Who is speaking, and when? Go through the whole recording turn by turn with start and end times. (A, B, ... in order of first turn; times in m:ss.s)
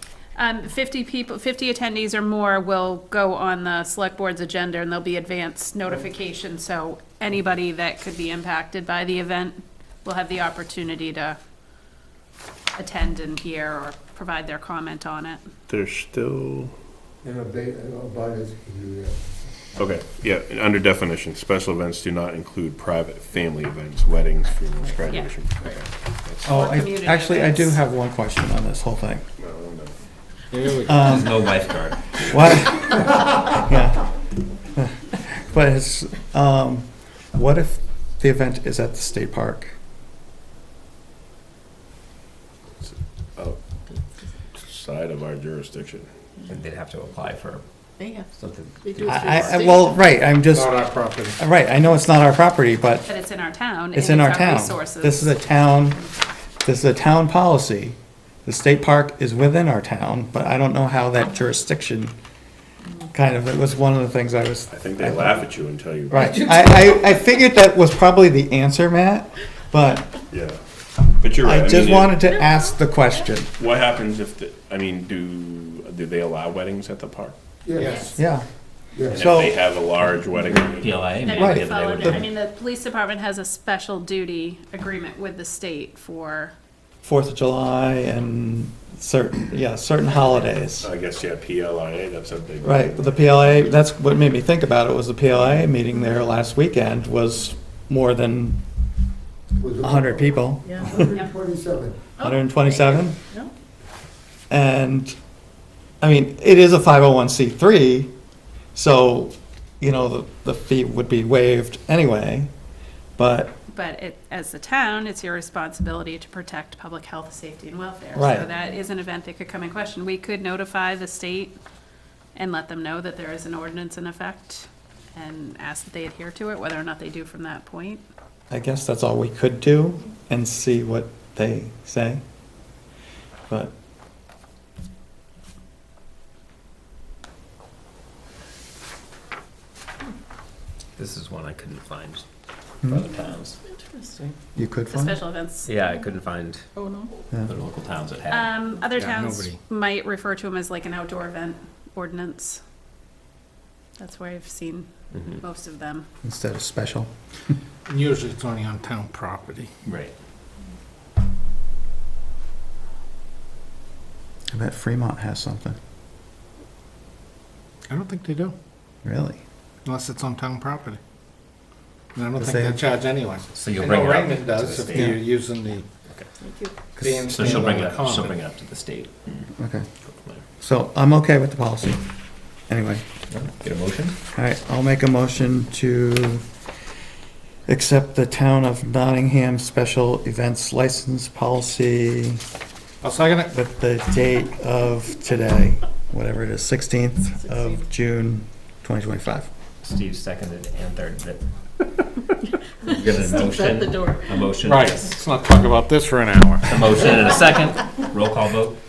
0:00.4-0:11.4 A
0:12.8-0:15.4 A
0:15.7-0:16.7 B
0:17.2-0:19.3 C
0:19.8-0:26.5 B
0:26.4-0:27.8 A
0:26.4-0:29.3 D
0:29.4-0:29.9 B
0:30.5-0:31.2 E
0:30.8-0:31.5 D
0:31.1-0:32.1 F
0:32.2-0:34.1 D
0:34.7-0:39.7 D
0:42.8-0:43.6 B
0:44.5-0:46.1 B
0:46.4-0:47.6 F
0:48.0-0:48.3 G
0:48.3-0:49.7 F
0:48.8-0:49.9 G
0:49.0-0:53.1 D
0:50.5-0:51.4 E
0:53.1-0:55.3 A
0:53.9-0:56.0 D
0:56.6-1:02.1 D
1:03.1-1:05.5 D
1:04.7-1:06.7 B
1:06.1-1:10.2 D
1:06.6-1:06.9 G
1:10.3-1:10.6 B
1:11.2-1:12.3 B
1:11.4-1:13.5 D
1:13.6-1:17.3 B
1:17.6-1:18.1 C
1:17.8-1:18.1 E
1:18.1-1:18.4 D
1:18.9-1:19.2 C
1:19.1-1:21.4 B
1:19.1-1:19.5 D
1:20.7-1:22.3 F
1:21.2-1:26.5 A
1:21.3-1:22.2 D
1:27.0-1:30.9 D
1:30.8-1:33.4 B
1:32.6-1:38.6 D
1:39.6-1:42.0 C
1:39.8-1:40.9 D
1:40.6-1:41.0 G
1:42.2-1:43.5 G
1:42.2-1:43.2 D
1:44.5-1:45.2 D
1:46.0-1:48.1 D
1:48.7-1:52.5 D
1:53.2-1:53.6 D
1:53.7-2:01.5 A
1:58.1-1:58.5 D
2:02.3-2:08.0 A
2:08.5-2:12.2 D
2:13.5-2:13.7 D
2:21.0-2:22.2 F
2:22.9-2:23.6 F
2:23.8-2:24.3 G
2:24.5-2:25.2 D
2:24.9-2:25.7 A
2:25.6-2:26.6 F
2:26.8-2:27.1 G
2:27.4-2:28.6 F
2:28.3-2:32.6 A
2:28.9-2:29.6 E
2:34.0-2:36.1 A
2:35.1-2:35.4 F
2:36.2-2:37.1 D
2:37.9-2:39.7 E
2:39.8-2:40.1 F
2:44.5-2:45.8 D
2:47.9-2:48.5 E
2:49.0-2:49.4 D
2:49.8-2:51.0 E
2:52.1-2:55.9 E
2:52.4-2:52.8 D
2:53.5-2:55.3 F
2:54.9-2:55.2 D
2:56.4-2:56.7 G
2:57.0-2:57.5 D
2:57.0-2:58.4 E
2:57.2-2:59.4 F
2:59.6-2:59.9 D
3:00.6-3:02.0 D
3:02.7-3:03.0 D
3:03.3-3:04.2 F
3:04.3-3:06.4 D
3:07.7-3:12.4 D
3:13.0-3:13.5 E
3:13.5-3:19.5 D
3:19.8-3:21.4 F
3:22.8-3:25.2 F
3:22.9-3:24.5 G
3:24.6-3:27.1 E
3:26.7-3:28.8 F